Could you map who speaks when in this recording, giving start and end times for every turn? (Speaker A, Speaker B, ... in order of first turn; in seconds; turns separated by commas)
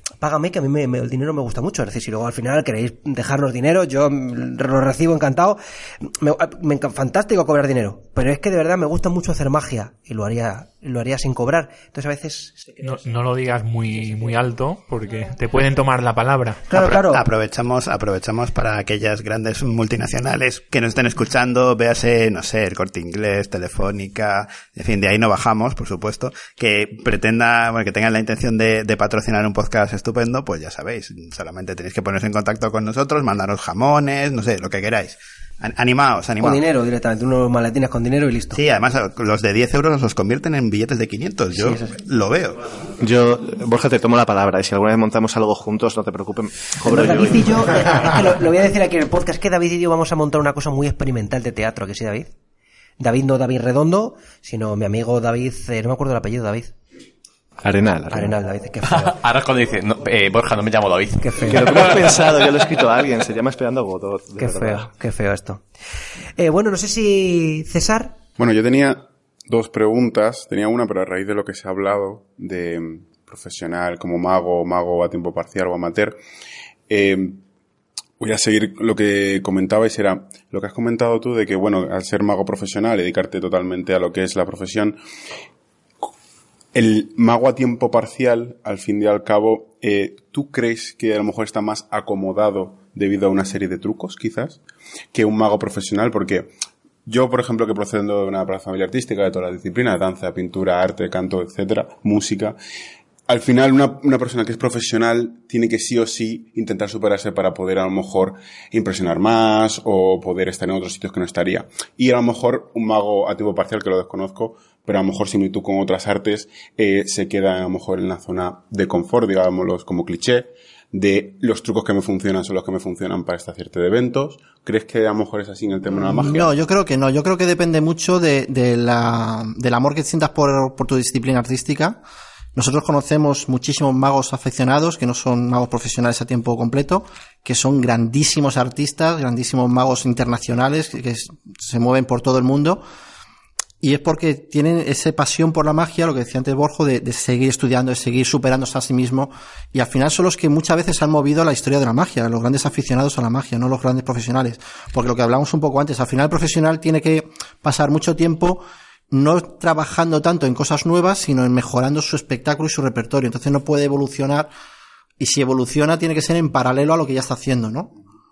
Speaker A: 0.2-12.8, Speaker B: 12.8-16.7, Speaker A: 16.7-17.3, Speaker C: 16.7-36.6, Speaker A: 36.4-38.6, Speaker C: 38.5-42.6, Speaker A: 41.5-42.0, Speaker D: 43.0-48.3, Speaker A: 46.9-52.3, Speaker A: 53.0-56.7, Speaker D: 57.6-58.4, Speaker A: 58.1-59.2, Speaker E: 58.9-61.8, Speaker A: 61.2-61.9, Speaker D: 61.5-64.9, Speaker A: 64.4-65.7, Speaker A: 66.4-68.2, Speaker F: 68.4-76.2, Speaker F: 76.9-77.4, Speaker F: 78.2-85.0, Speaker F: 86.7-94.6, Speaker F: 95.1-96.5, Speaker F: 97.1-102.6, Speaker F: 103.3-126.5, Speaker G: 126.0-132.0, Speaker G: 132.6-142.8, Speaker G: 143.8-164.5, Speaker G: 165.2-167.9